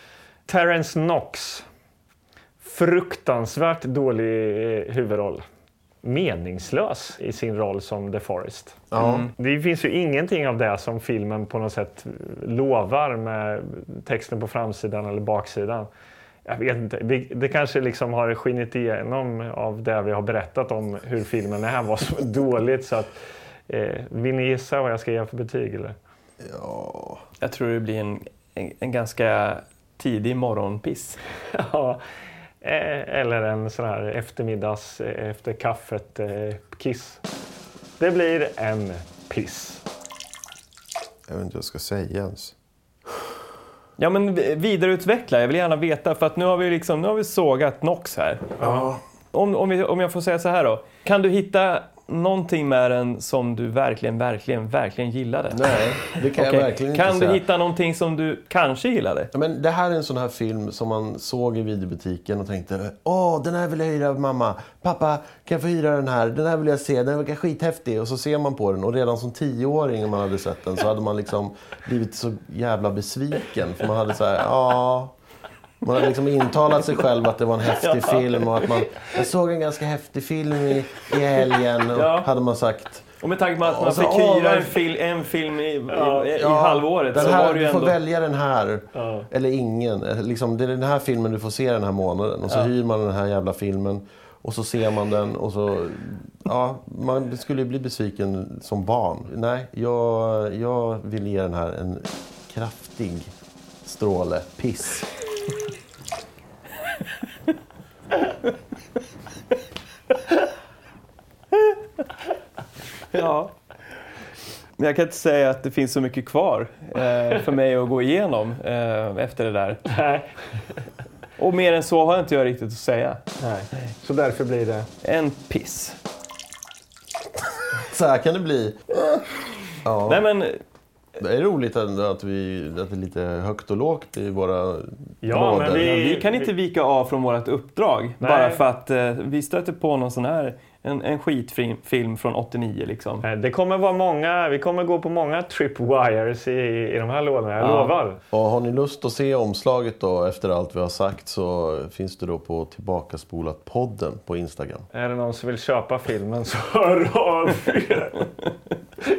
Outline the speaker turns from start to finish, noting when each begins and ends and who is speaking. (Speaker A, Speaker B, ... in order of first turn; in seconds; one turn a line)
Speaker A: 0.5-1.7
Speaker A: 2.6-5.5
Speaker A: 6.0-15.9
Speaker B: 8.9-9.3
Speaker C: 9.0-9.3
Speaker A: 16.5-23.1
Speaker A: 23.7-26.0
Speaker B: 26.4-27.2
Speaker C: 27.4-31.2
Speaker A: 31.5-32.0
Speaker A: 32.6-37.2
Speaker A: 38.0-39.8
Speaker B: 41.3-42.5
Speaker C: 44.0-48.7
Speaker A: 48.6-48.9
Speaker B: 48.6-49.0
Speaker C: 49.3-59.3
Speaker B: 55.5-57.4
Speaker B: 59.3-75.1
Speaker B: 75.8-83.1
Speaker C: 77.7-79.2
Speaker C: 81.9-82.3
Speaker C: 83.2-88.0
Speaker B: 83.6-84.8
Speaker A: 85.9-86.3
Speaker B: 86.3-103.3
Speaker A: 89.0-89.3
Speaker B: 103.8-105.1
Speaker C: 113.1-113.5
Speaker C: 114.8-119.9
Speaker A: 119.9-120.3
Speaker C: 121.4-123.2
Speaker A: 123.4-124.9
Speaker C: 125.0-126.0
Speaker B: 127.8-129.1
Speaker B: 129.8-130.2
Speaker C: 130.1-130.6
Speaker B: 131.2-135.9
Speaker A: 135.2-136.5
Speaker C: 135.7-143.2
Speaker A: 138.2-138.6
Speaker A: 143.2-148.2
Speaker C: 147.6-147.9
Speaker B: 148.3-154.8
Speaker A: 154.9-158.3